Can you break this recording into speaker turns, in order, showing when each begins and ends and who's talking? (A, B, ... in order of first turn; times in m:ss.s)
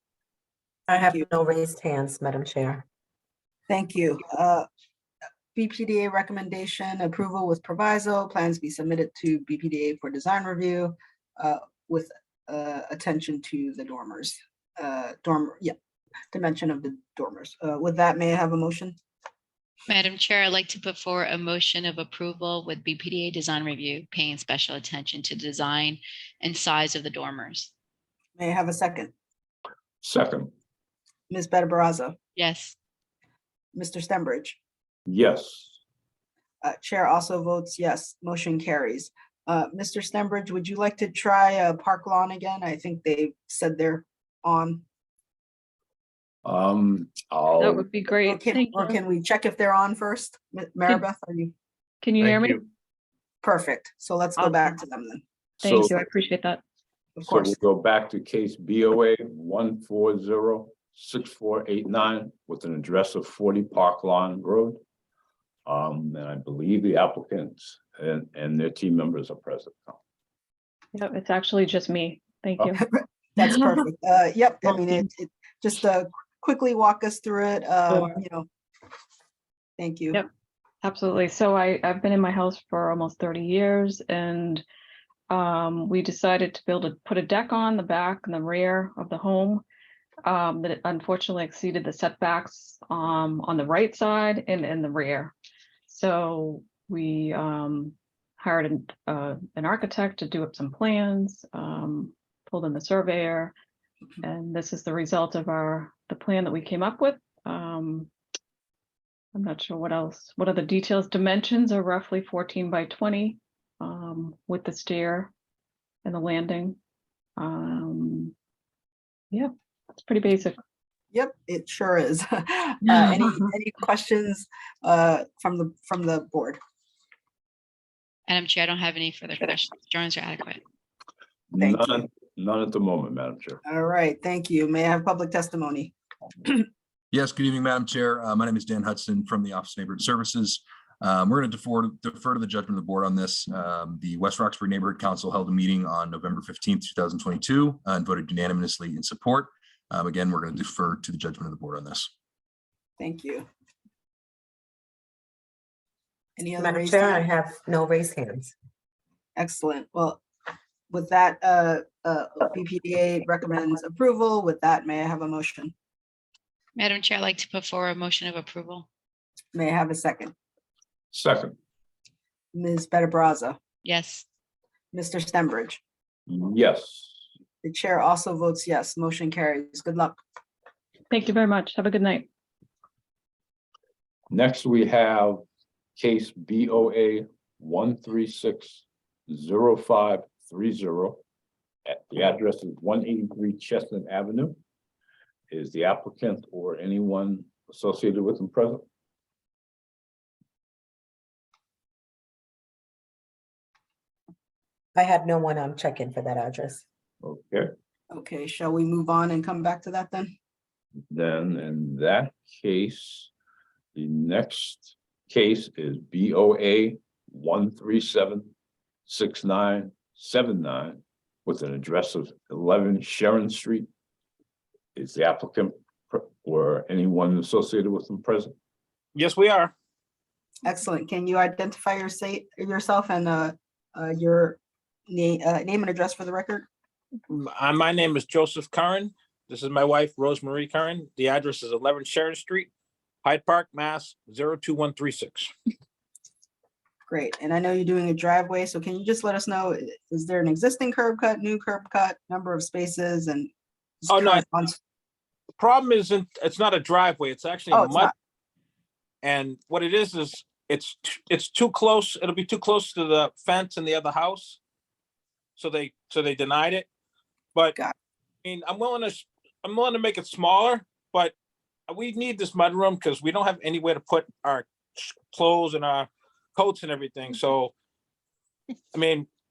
0:00.9-0:02.8 A
0:03.7-0:04.6 B
0:05.5-0:15.7 B
0:16.3-0:19.0 B
0:19.9-0:27.7 C
0:28.4-0:29.1 B
0:30.0-0:30.5 D
0:31.3-0:32.1 B
0:32.4-0:32.7 C
0:33.7-0:34.6 B
0:35.1-0:35.8 D
0:36.6-0:44.8 B
0:46.4-0:47.8 D
0:47.6-0:49.0 E
0:48.2-0:51.5 B
0:52.0-0:52.6 E
0:53.4-0:55.2 B
0:54.4-0:54.8 E
0:55.6-0:56.6 E
0:55.6-0:55.9 D
0:57.2-0:57.6 B
0:57.3-1:04.8 D
1:05.6-1:10.0 D
1:10.9-1:12.8 E
1:12.6-1:18.5 B
1:17.9-1:18.2 E
1:19.8-1:20.2 B
1:20.8-1:24.6 E
1:25.3-1:29.6 E
1:30.2-1:35.3 E
1:35.9-1:43.5 E
1:44.2-1:48.1 E
1:49.3-1:55.3 E
1:56.0-1:56.8 E
1:57.4-1:58.3 E
1:59.3-2:00.6 E
2:01.1-2:06.6 B
2:08.3-2:10.6 C
2:11.5-2:13.6 D
2:11.6-2:12.1 B
2:13.6-2:15.9 B
2:17.1-2:32.1 F
2:33.0-2:33.5 B
2:36.4-2:37.2 B
2:36.6-2:38.5 A
2:39.4-2:40.2 B
2:40.9-2:45.7 B
2:46.8-2:48.8 C
2:49.5-2:50.3 B
2:51.1-2:51.6 D
2:52.5-2:53.6 B
2:53.8-2:54.2 C
2:54.9-2:55.8 B
2:56.3-2:57.2 D
2:57.6-3:00.2 B
3:01.1-3:02.3 E
3:04.3-3:05.4 D
3:06.0-3:11.2 D
3:11.8-3:14.6 D
3:15.5-3:18.8 D
3:24.9-3:26.8 A
3:27.2-3:27.7 D
3:28.1-3:30.3 B
3:31.1-3:33.3 D
3:33.9-3:38.5 D
3:39.1-3:43.9 D
3:44.9-3:48.5 D
3:49.1-3:49.7 G
3:50.6-3:56.7 B
3:57.3-4:02.7 G
4:03.2-4:05.5 G
4:07.1-4:13.5 B
4:14.0-4:14.8 B
4:14.1-4:14.4 G
4:15.6-4:18.1 G
4:17.7-4:18.1 B
4:19.2-4:24.6 G
4:25.6-4:26.8 G
4:28.4-4:31.3 G
4:31.9-4:37.7 G
4:38.9-4:39.3 G